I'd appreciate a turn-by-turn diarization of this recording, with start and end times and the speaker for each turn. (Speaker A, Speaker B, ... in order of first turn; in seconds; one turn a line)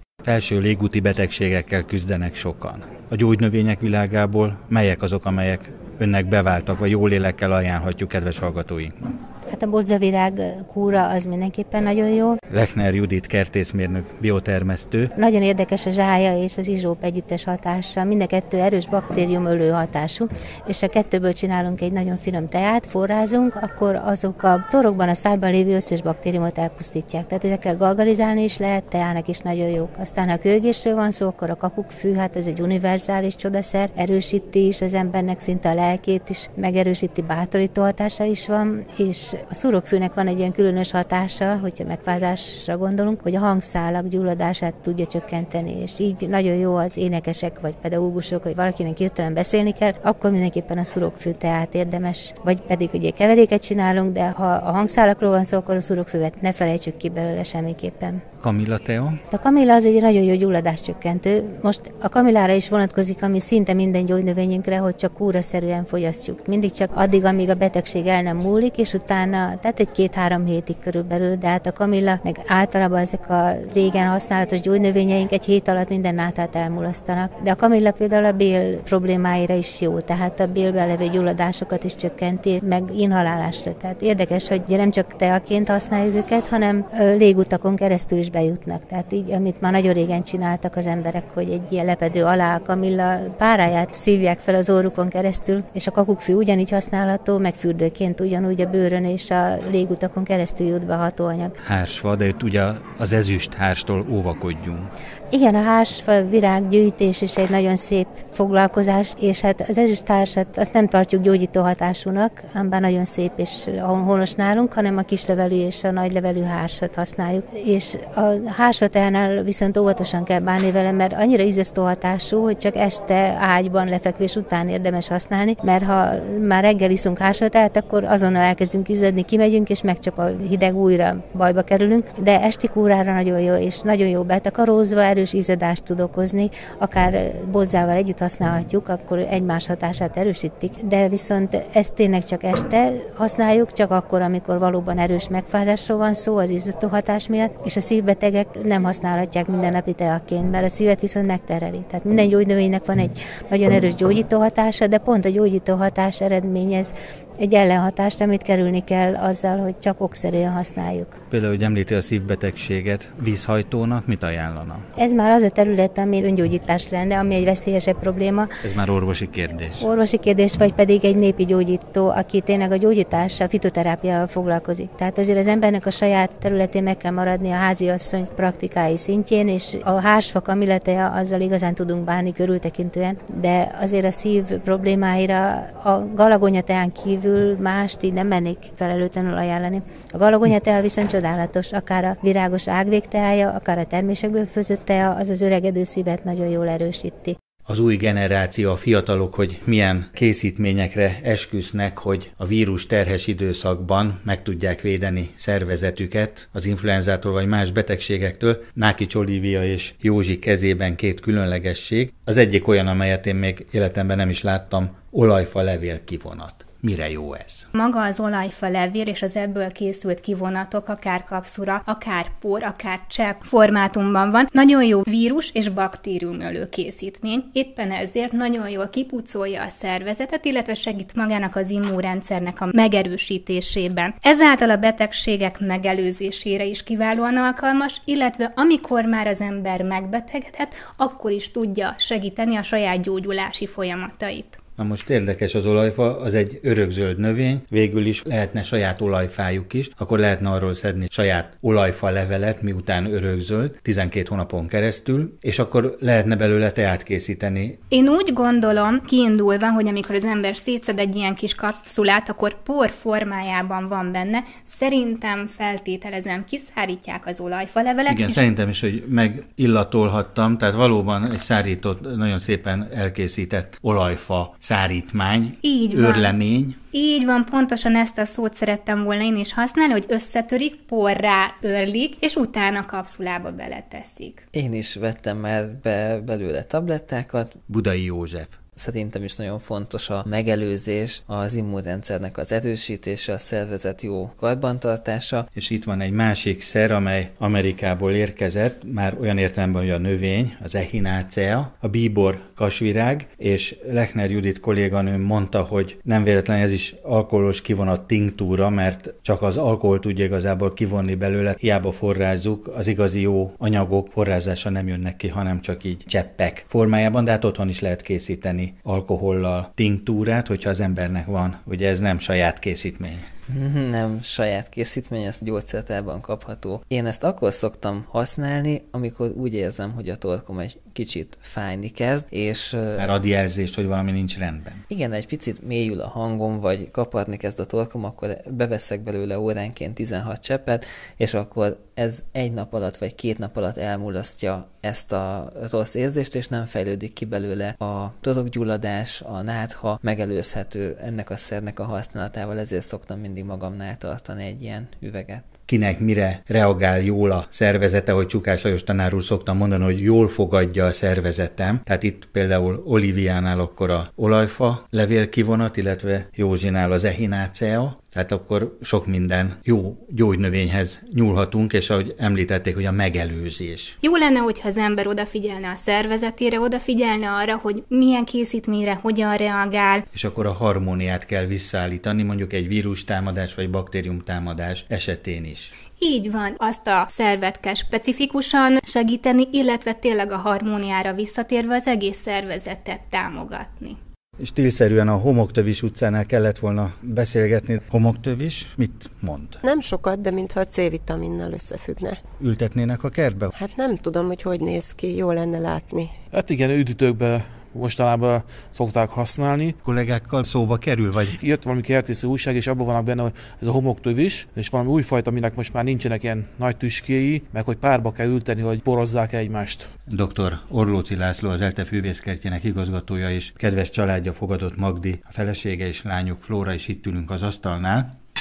Speaker A: 0.2-8.9
Speaker B: 9.5-12.4
Speaker A: 12.5-15.1
Speaker B: 15.2-58.2
Speaker A: 58.4-59.2
Speaker B: 59.3-101.5
Speaker A: 101.6-104.9
Speaker B: 105.3-161.2
Speaker A: 161.3-164.8
Speaker B: 165.0-168.5
Speaker A: 168.6-169.8
Speaker B: 169.8-197.4
Speaker A: 197.7-217.7
Speaker C: 217.8-244.6
Speaker A: 244.8-257.8
Speaker C: 257.9-268.4
Speaker A: 268.1-276.8
Speaker C: 275.6-276.4
Speaker C: 276.9-284.4
Speaker D: 284.5-287.6
Speaker A: 287.7-288.6
Speaker D: 288.8-295.4
Speaker A: 295.5-323.2
Speaker D: 323.5-333.2
Speaker A: 332.9-334.8
Speaker D: 334.9-355.5
Speaker A: 355.7-373.9
Speaker C: 374.0-380.0
Speaker A: 380.1-385.8
Speaker C: 386.0-394.0
Speaker A: 394.4-399.6
Speaker E: 399.6-402.2
Speaker A: 402.4-403.5
Speaker E: 403.6-406.2
Speaker F: 406.3-409.8
Speaker A: 409.8-411.4
Speaker F: 411.3-419.9
Speaker A: 420.1-428.1